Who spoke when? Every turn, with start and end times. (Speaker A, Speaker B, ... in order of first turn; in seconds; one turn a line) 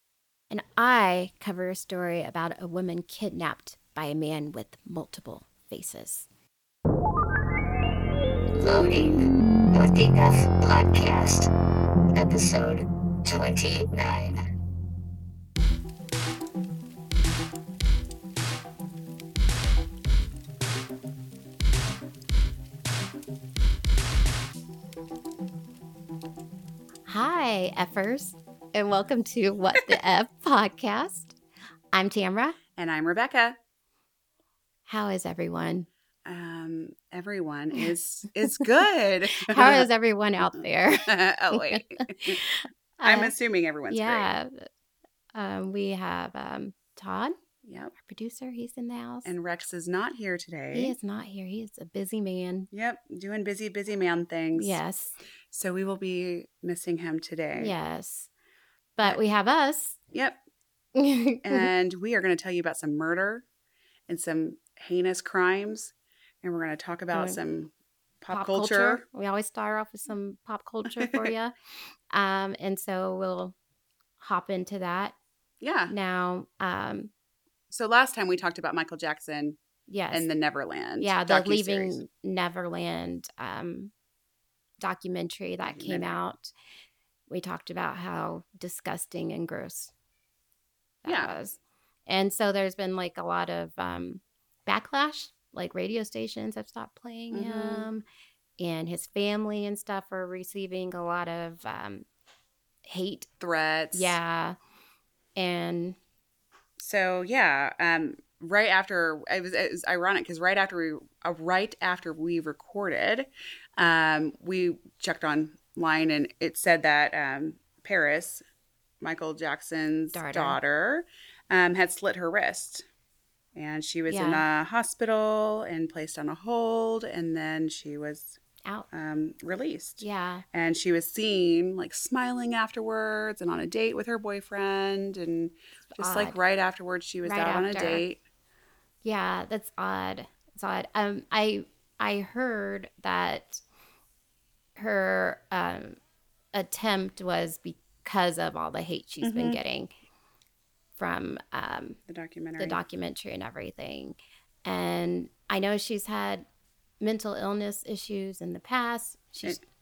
Speaker A: 0.5-6.3
Speaker B: 8.6-11.5
Speaker B: 12.1-14.4
Speaker A: 27.1-31.4
Speaker A: 31.9-32.6
Speaker C: 32.8-33.6
Speaker A: 34.9-35.9
Speaker C: 36.2-39.9
Speaker A: 39.4-43.3
Speaker C: 41.0-42.4
Speaker C: 43.0-44.3
Speaker A: 43.9-44.7
Speaker A: 45.3-47.3
Speaker C: 47.6-47.9
Speaker A: 48.0-49.3
Speaker C: 49.2-50.9
Speaker A: 50.7-52.7
Speaker C: 52.7-54.8
Speaker A: 54.5-55.2
Speaker C: 55.5-57.7
Speaker A: 57.6-58.3
Speaker A: 59.0-60.0
Speaker C: 60.1-60.4
Speaker A: 61.0-61.7
Speaker C: 61.4-63.4
Speaker C: 64.1-69.0
Speaker A: 67.1-67.4
Speaker A: 68.3-71.5
Speaker C: 71.0-71.3
Speaker A: 72.1-73.5
Speaker A: 74.2-75.2
Speaker C: 75.6-75.9
Speaker A: 75.9-77.1
Speaker C: 77.7-79.6
Speaker A: 79.9-80.3
Speaker C: 80.1-82.0
Speaker A: 81.0-83.9
Speaker A: 84.8-86.5
Speaker C: 85.6-86.1
Speaker A: 87.3-89.9
Speaker A: 91.0-98.0
Speaker C: 91.0-91.3
Speaker C: 97.3-97.9
Speaker A: 98.6-102.0
Speaker A: 102.8-103.3
Speaker C: 103.4-104.2
Speaker A: 103.9-104.5
Speaker A: 105.3-106.0
Speaker C: 106.8-118.4
Speaker C: 119.0-122.8
Speaker A: 120.1-120.6
Speaker C: 123.5-128.4
Speaker A: 124.1-124.4
Speaker C: 128.9-138.2
Speaker A: 130.0-130.4
Speaker A: 135.9-136.4
Speaker A: 137.2-138.0
Speaker A: 139.0-143.6
Speaker A: 144.8-146.0
Speaker A: 146.5-149.9
Speaker C: 149.2-149.6
Speaker A: 151.0-152.0
Speaker C: 152.1-152.8
Speaker A: 152.6-156.5
Speaker A: 157.0-159.6